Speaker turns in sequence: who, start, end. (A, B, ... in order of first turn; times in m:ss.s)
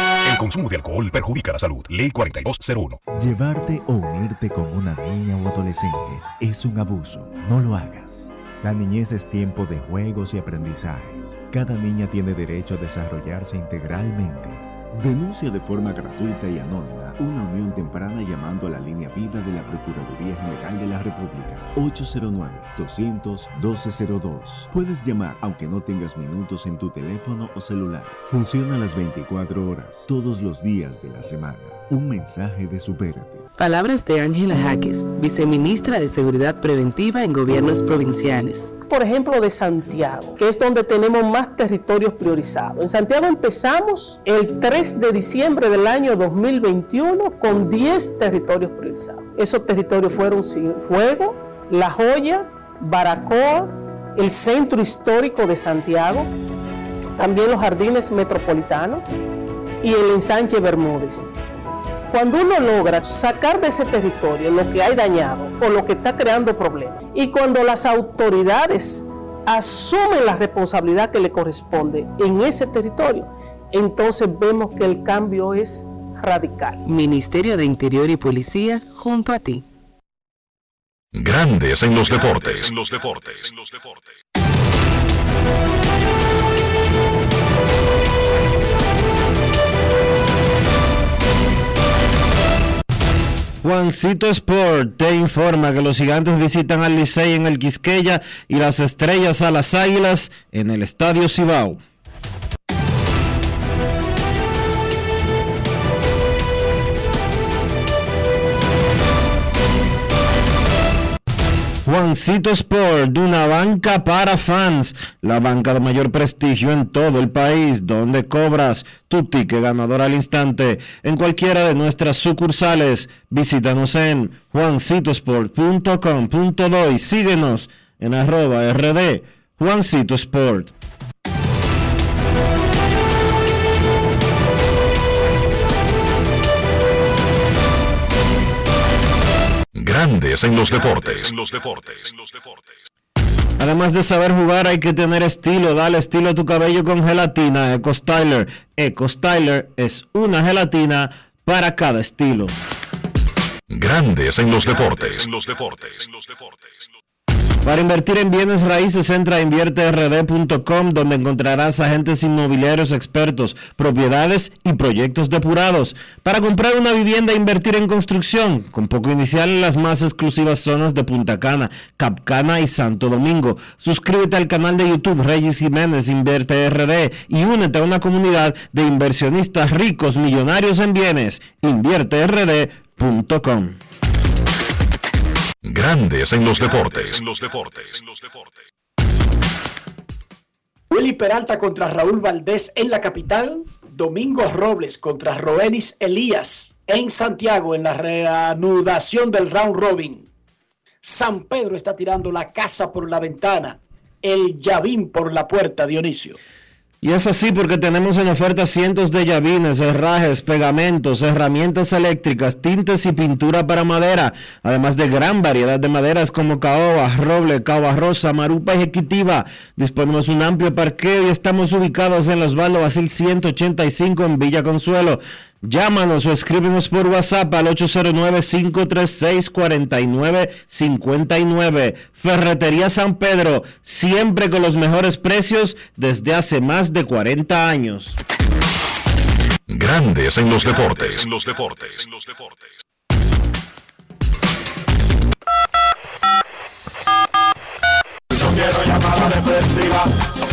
0:00.2-0:03.0 A
0:03.1-0:33.4 B
0:33.6-0:38.7 C
0:38.9-0:56.3 D
0:57.2-0:59.0 D
0:59.8-1:01.4 D
1:02.1-1:16.8 D
1:16.8-1:19.6 C
1:21.1-1:24.2 E
1:33.6-1:41.8 F
1:51.8-2:10.7 F
2:19.7-2:22.8 E
2:23.6-2:32.5 F
2:33.7-2:36.9 E
2:37.6-3:03.8 F
3:05.6-3:08.6 E
3:10.9-3:20.3 G
3:21.0-3:26.4 G
3:27.0-3:58.2 F
3:59.7-4:02.7 E